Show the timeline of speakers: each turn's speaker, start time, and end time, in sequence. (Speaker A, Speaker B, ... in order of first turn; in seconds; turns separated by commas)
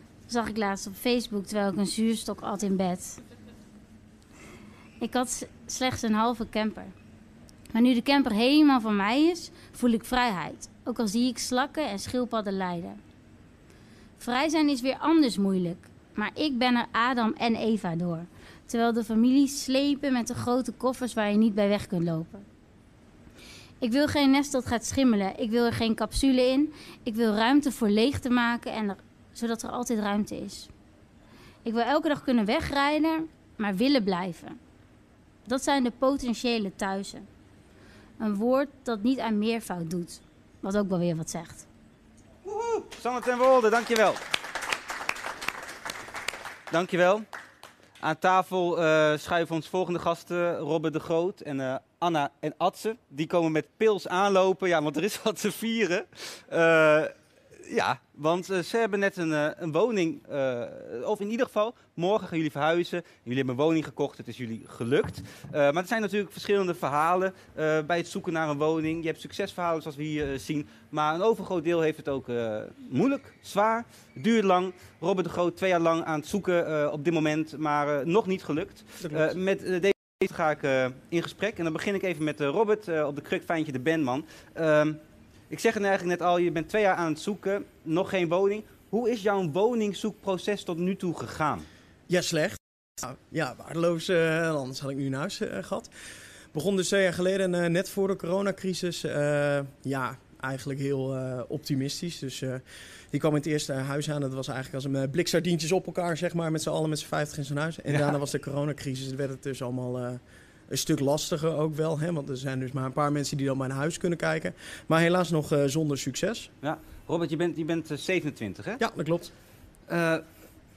Speaker A: 0.3-3.2, Speaker A: 5.0-6.9, Speaker A: 7.7-13.0, Speaker A: 14.2-22.4, Speaker A: 23.8-30.7, Speaker A: 31.6-34.6, Speaker A: 35.5-37.3, Speaker A: 38.2-41.7, Speaker B: 42.5-44.2, Speaker B: 46.7-47.3, Speaker B: 48.0-85.0, Speaker C: 79.0-79.3, Speaker B: 85.5-91.7, Speaker C: 92.1-95.9, Speaker C: 96.5-116.5, Speaker B: 107.9-108.2, Speaker B: 116.6-118.8, Speaker C: 118.8-119.3, Speaker B: 119.9-120.2